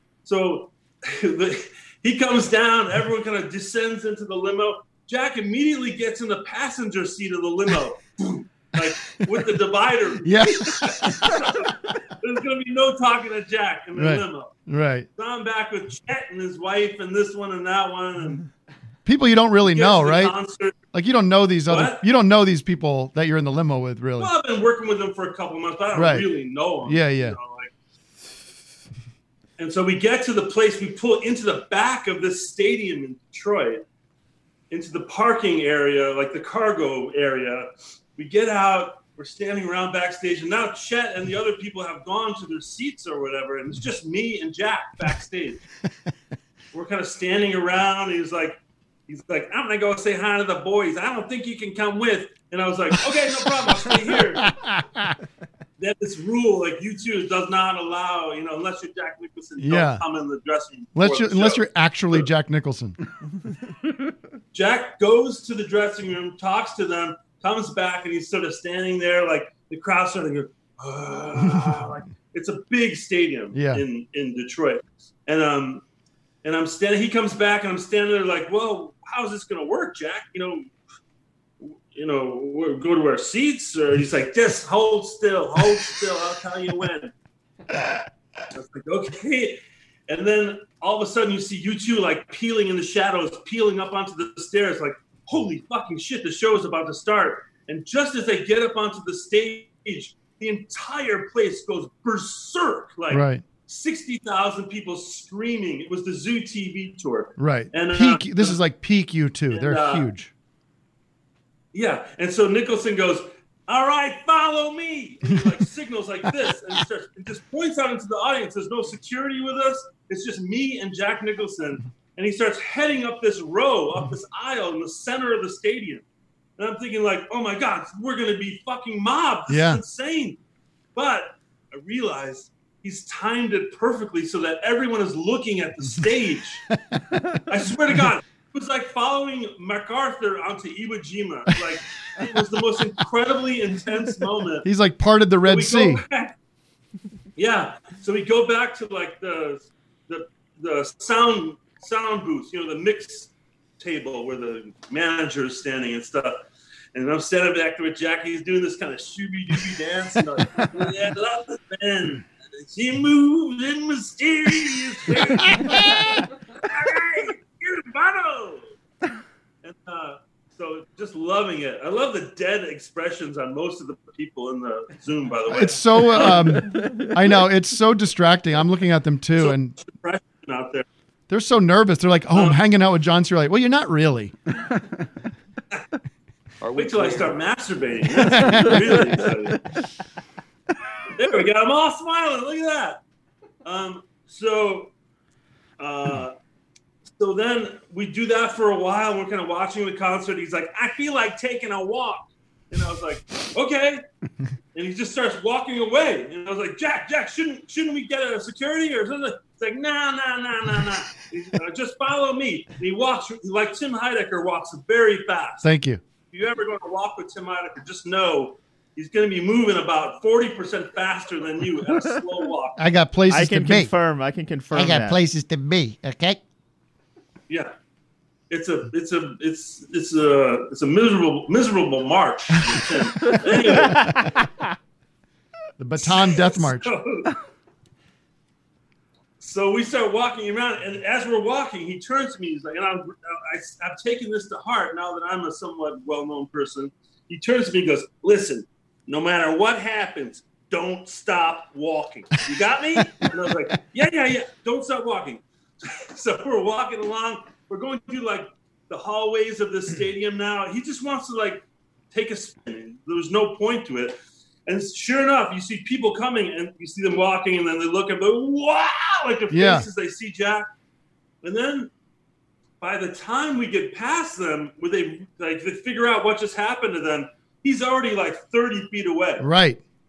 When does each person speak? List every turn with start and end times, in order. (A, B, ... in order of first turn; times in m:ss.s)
0:00.2-0:11.7 A
0:10.2-0:11.4 B
0:12.2-0:14.5 A
0:13.9-0:15.1 B
0:15.2-0:18.4 A
0:19.0-0:20.4 B
0:19.6-0:20.7 A
0:20.9-0:24.3 B
0:21.7-0:22.0 A
0:24.2-0:27.7 A
0:25.9-0:26.3 B
0:26.8-0:27.4 B
0:29.6-0:33.8 A
0:34.7-0:45.6 A
0:46.7-0:48.6 A
0:49.1-0:54.5 A
0:54.1-0:55.1 B
0:55.8-1:02.3 A
0:59.6-1:00.0 B
1:00.9-1:03.0 B
1:04.5-1:15.8 A
1:13.5-1:13.8 B
1:16.4-1:20.7 A
1:21.6-1:27.1 A
1:28.5-1:48.6 A
1:43.1-1:43.5 B
1:47.4-1:50.3 B
1:49.5-1:50.1 A
1:51.7-2:06.0 A
2:06.6-2:10.4 A
2:09.5-2:09.8 B
2:10.9-2:16.6 A
2:17.5-2:24.6 A
2:24.6-2:26.0 B
2:25.4-2:26.3 A
2:27.4-2:36.3 A
2:36.9-2:48.7 A
2:45.4-2:46.1 B
2:49.6-2:56.6 A
2:55.5-2:59.7 B
2:59.3-3:00.8 A
3:01.3-3:04.3 B
3:02.3-3:02.6 A
3:06.7-3:09.6 A
3:08.2-3:09.0 B
3:11.2-3:13.0 A
3:13.6-3:14.9 A
3:15.8-3:16.3 A
3:17.2-3:24.0 A
3:24.7-3:35.7 A
3:35.6-3:36.0 B
3:36.3-3:42.8 A
3:42.8-3:43.9 B
3:43.3-3:45.2 C
3:44.7-3:46.4 B
3:48.5-3:54.1 A
3:54.0-3:54.4 C
3:55.8-3:56.9 B
3:56.0-3:57.3 A
3:59.4-4:24.2 A
4:24.7-4:30.7 A
4:29.5-4:29.9 B
4:31.4-4:31.9 A
4:32.8-4:39.4 A
4:39.4-4:39.8 B